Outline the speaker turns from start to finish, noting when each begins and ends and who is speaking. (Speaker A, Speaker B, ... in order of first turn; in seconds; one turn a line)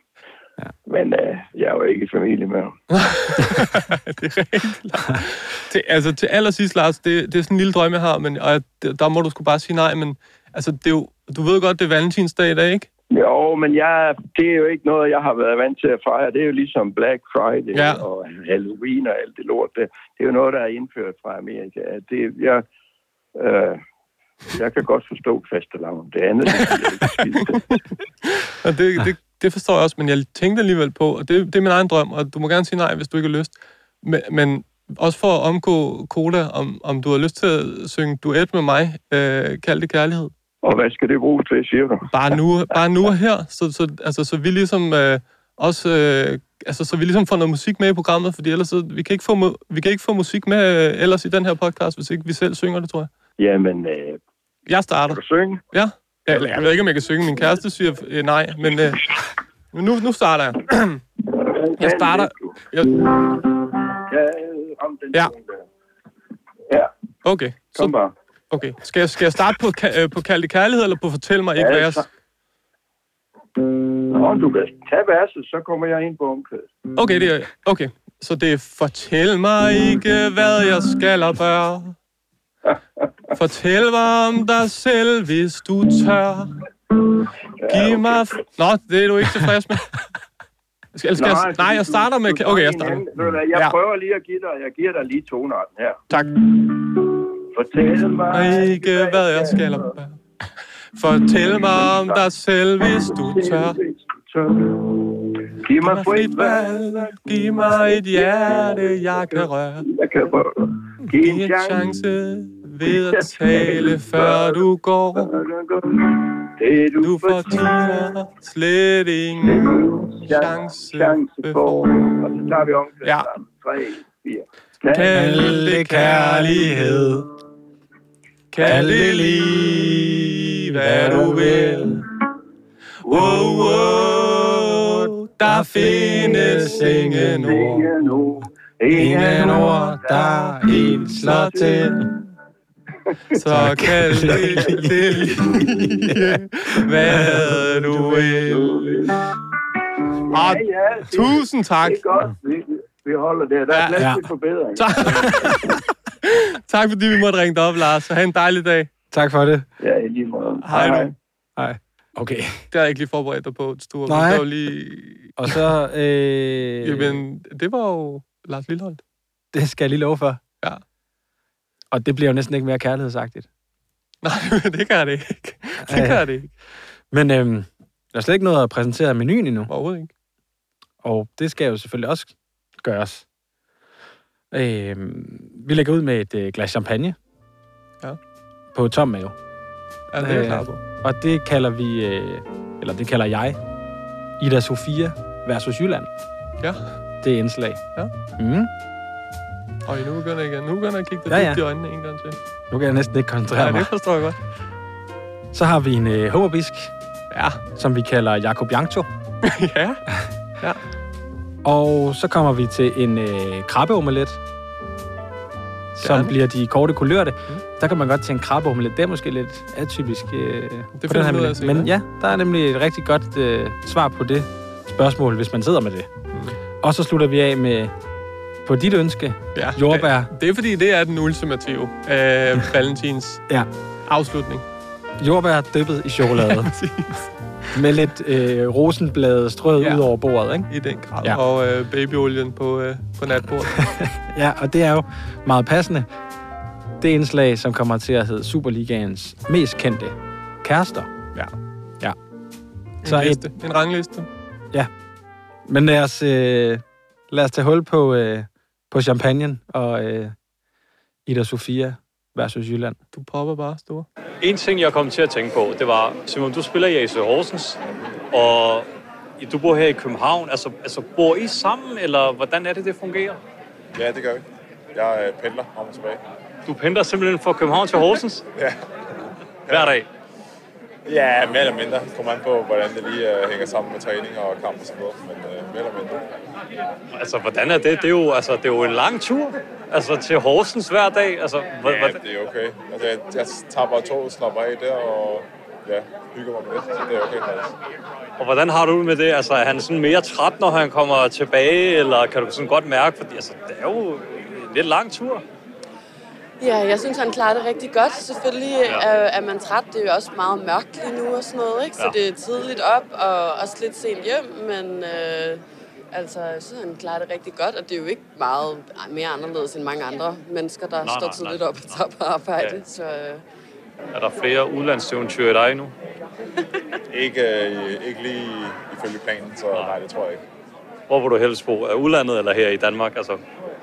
Speaker A: 0.9-2.8
Speaker B: 2.9-12.9
Speaker A: 13.1-22.6
Speaker B: 17.8-18.0
Speaker A: 23.4-23.8
Speaker A: 24.5-27.8
Speaker B: 28.2-40.3
Speaker A: 40.6-42.1
Speaker B: 42.1-53.1
Speaker A: 53.4-54.2
Speaker B: 54.7-59.2
Speaker A: 55.1-55.6
Speaker B: 59.7-61.0
Speaker A: 61.3-62.6
Speaker B: 61.8-63.1
Speaker A: 63.1-65.7
Speaker B: 67.2-67.9
Speaker A: 67.8-68.1
Speaker B: 68.5-72.0
Speaker A: 71.6-72.0
Speaker A: 74.1-76.7
Speaker B: 77.0-82.0
Speaker B: 83.3-86.6
Speaker A: 87.6-88.3
Speaker B: 87.7-90.0
Speaker B: 91.0-93.8
Speaker A: 91.2-96.0
Speaker B: 96.1-96.5
Speaker A: 96.6-99.9
Speaker B: 98.3-100.2
Speaker B: 101.0-103.8
Speaker A: 101.4-102.3
Speaker A: 102.8-111.9
Speaker B: 105.8-109.9
Speaker B: 111.1-115.3
Speaker A: 112.8-114.6
Speaker A: 115.2-118.1
Speaker B: 117.0-119.8
Speaker A: 119.4-125.1
Speaker B: 120.3-122.2
Speaker B: 123.0-123.3
Speaker B: 124.9-127.2
Speaker C: 125.1-127.2
Speaker B: 128.5-132.0
Speaker C: 128.6-132.0
Speaker A: 131.2-131.9
Speaker A: 133.0-134.6
Speaker B: 133.1-137.8
Speaker C: 135.4-137.9
Speaker A: 136.1-136.8
Speaker A: 137.4-141.9
Speaker C: 138.9-142.1
Speaker B: 140.7-142.1
Speaker B: 143.3-149.0
Speaker C: 143.5-146.2
Speaker A: 144.2-146.2
Speaker C: 147.0-147.5
Speaker A: 147.1-149.2
Speaker A: 150.1-155.8
Speaker B: 150.3-152.0
Speaker B: 153.7-154.1
Speaker C: 154.0-154.2
Speaker B: 154.8-158.9
Speaker C: 159.1-159.7
Speaker A: 159.8-161.1
Speaker B: 160.7-161.1
Speaker C: 161.6-162.6
Speaker B: 162.7-165.7
Speaker C: 164.1-164.4
Speaker C: 165.4-167.2
Speaker B: 166.8-169.0
Speaker C: 169.5-170.4
Speaker C: 171.9-173.5
Speaker B: 174.2-176.5
Speaker C: 175.8-176.3
Speaker C: 177.1-179.7
Speaker B: 179.7-180.1
Speaker C: 181.0-183.2
Speaker C: 184.5-187.2
Speaker C: 188.7-189.4
Speaker B: 190.1-190.8
Speaker C: 190.2-193.6
Speaker C: 194.4-196.1
Speaker C: 197.2-197.8
Speaker C: 198.4-198.7
Speaker B: 199.8-202.4
Speaker C: 201.3-201.6
Speaker C: 202.7-203.9
Speaker B: 203.6-204.4
Speaker C: 205.5-206.9
Speaker B: 207.3-207.6
Speaker C: 207.8-209.1
Speaker B: 209.4-210.1
Speaker C: 211.6-214.4
Speaker C: 216.0-226.1
Speaker B: 216.0-216.3
Speaker B: 221.0-221.9
Speaker C: 226.8-227.9
Speaker C: 228.7-230.3
Speaker B: 229.6-233.4
Speaker B: 234.1-234.6
Speaker C: 235.2-236.8
Speaker B: 236.3-237.3
Speaker C: 237.7-240.7
Speaker B: 239.8-240.1
Speaker B: 240.7-243.9
Speaker C: 243.8-246.1
Speaker C: 247.0-251.1
Speaker B: 253.0-254.3
Speaker C: 253.0-253.4
Speaker C: 255.7-260.4
Speaker C: 261.3-263.0
Speaker B: 263.1-264.1
Speaker D: 264.4-267.8
Speaker D: 268.3-268.9
Speaker D: 269.4-273.4
Speaker E: 273.9-274.4
Speaker E: 274.9-276.2
Speaker D: 276.7-278.4
Speaker E: 279.7-279.9
Speaker D: 279.7-280.1
Speaker E: 281.1-286.2
Speaker D: 287.1-292.2
Speaker E: 291.8-297.7
Speaker D: 298.4-305.4
Speaker F: 306.6-323.4
Speaker D: 321.0-321.9
Speaker D: 324.1-325.9
Speaker E: 327.1-330.4
Speaker D: 331.1-333.4